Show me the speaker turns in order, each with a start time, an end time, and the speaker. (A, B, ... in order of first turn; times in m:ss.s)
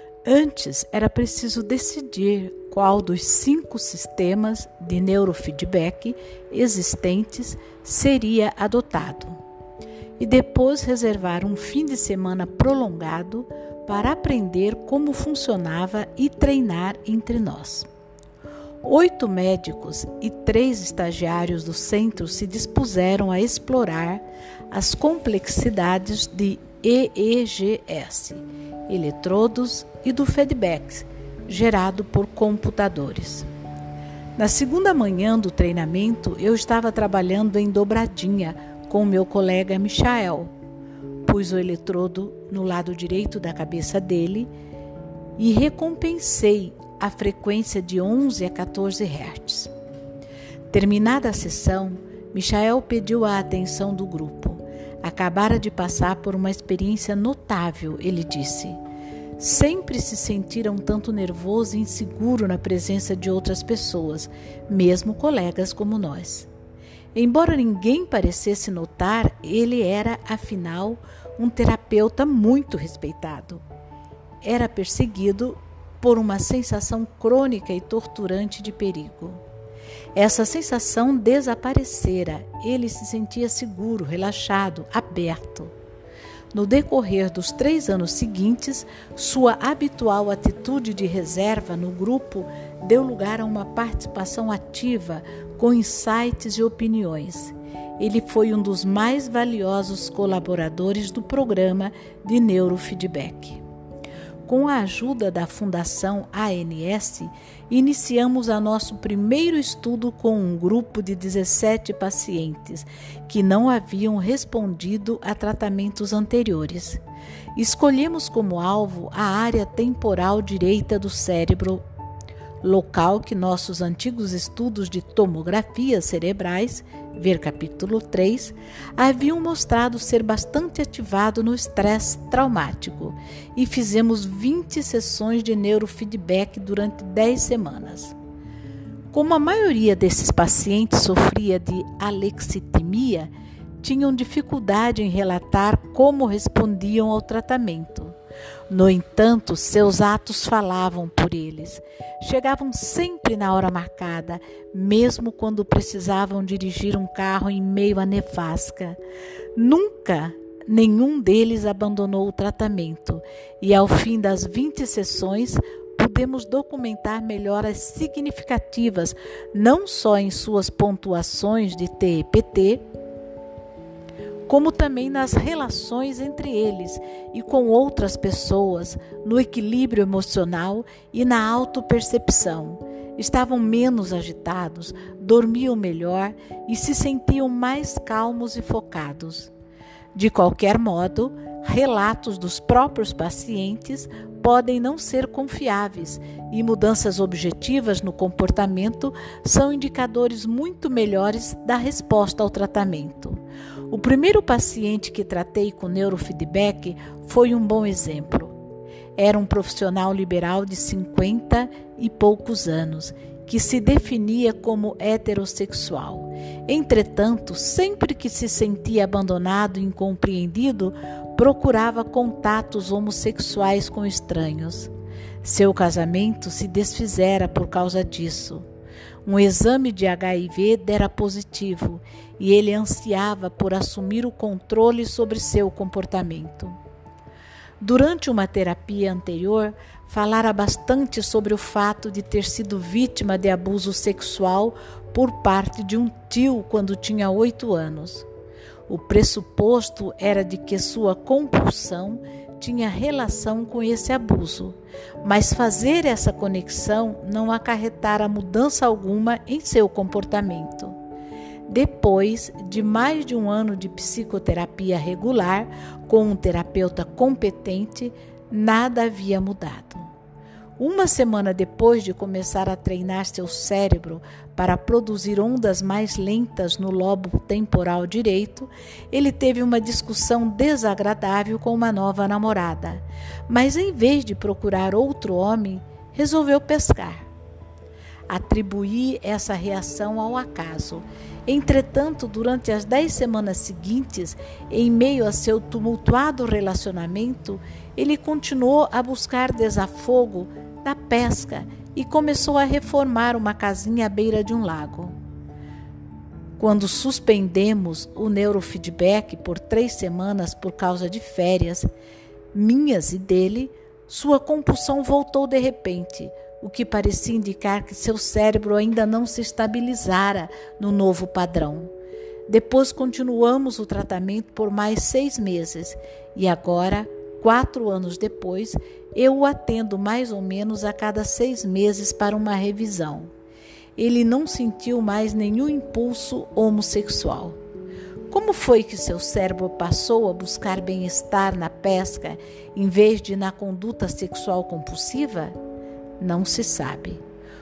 0:00.2-0:09.4 A
0:10.2-0:17.9 A
0:18.8-0:33.5 A
0:34.4-0:40.5 A
0:41.2-0:44.5 A
0:45.4-0:49.7 A
0:50.7-0:58.8 A
0:59.4-1:06.5 A
1:07.2-1:13.6 A
1:14.4-1:19.4 A
1:20.2-1:25.7 A
1:26.5-1:43.6 A
1:44.5-1:57.0 A
1:57.6-2:01.8 A
2:02.6-2:18.2 A
2:19.1-2:28.2 A
2:28.7-2:39.0 A
2:39.6-2:52.8 A
2:54.5-3:09.5 A
3:10.1-3:28.5 A
3:29.2-3:44.9 A
3:45.4-3:48.7 A
3:49.2-3:56.8 A
3:57.8-4:08.3 A
4:08.9-4:21.0 A
4:21.7-4:30.1 A
4:30.8-4:47.3 A
4:48.3-5:05.1 A
5:06.6-5:11.9 A
5:12.5-5:21.9 A
5:22.5-5:33.3 A
5:34.0-5:37.6 A
5:38.3-5:45.6 A
5:46.2-5:47.2 A